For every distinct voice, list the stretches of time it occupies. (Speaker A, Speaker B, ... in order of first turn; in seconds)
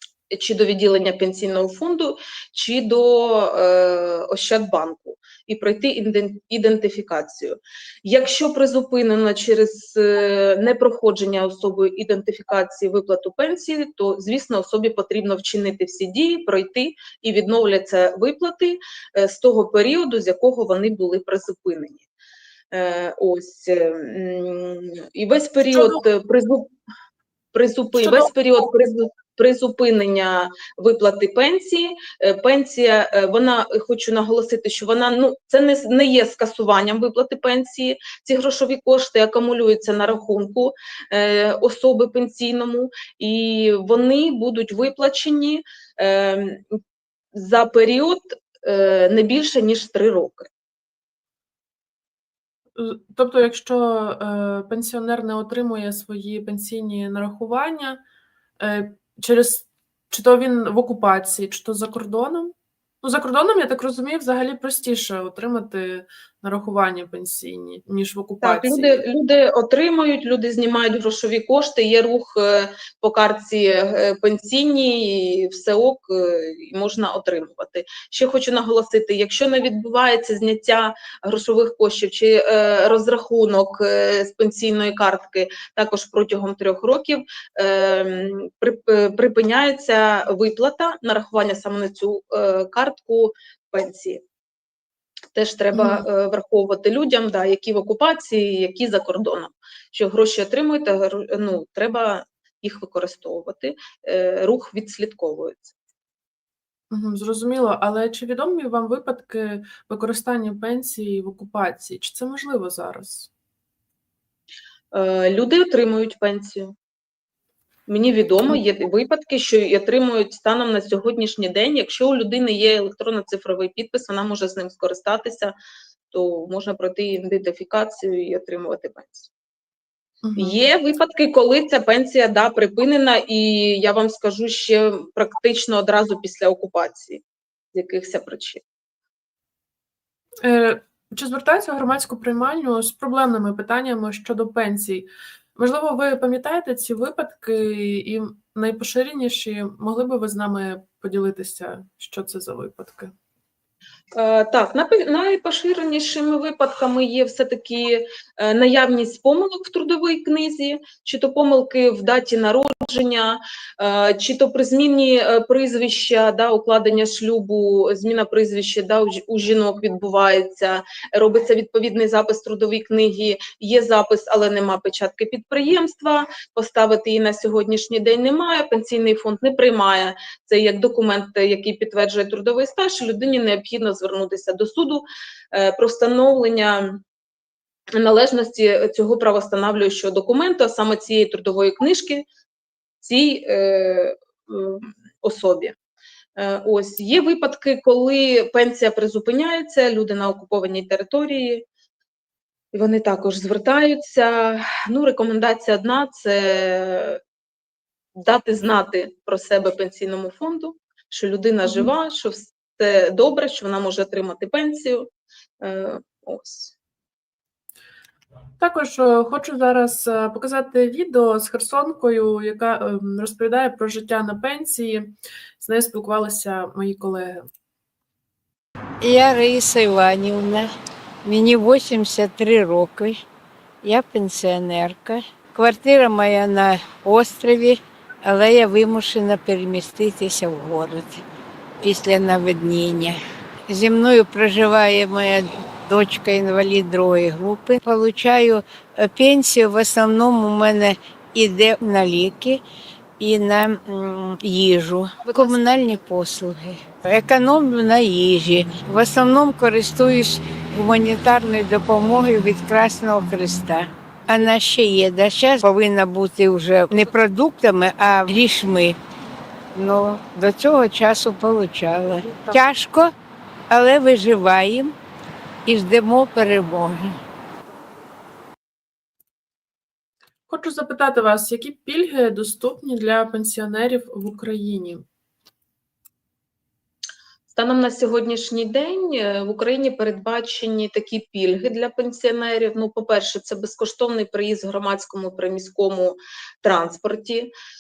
Speaker A: 0.3-22.1, 22.7-26.7, 27.5-46.8, 47.4-50.5, 68.4-94.2, 95.3-105.7, 114.9-116.7, 117.9-125.5, 126.1-129.3, 130.4-137.2, 137.7-138.6, 154.2-187.0, 188.0-192.3, 193.0-195.8, 196.4-201.7, 202.7-207.2, 208.2-215.1, 215.6-216.7, 255.2-255.6, 287.5-297.5
Speaker B: 25.7-26.1, 28.0-28.3, 52.8-58.0, 58.6-69.0, 95.7-96.1, 106.9-113.3, 130.2-130.7, 140.4-153.1, 211.7-211.9, 218.6-227.4, 280.5-285.0
Speaker C: 229.0-230.7, 231.2-233.2, 233.8-241.2, 241.8-252.6, 253.2-269.0, 269.7-273.1, 273.7-275.0, 275.6-277.2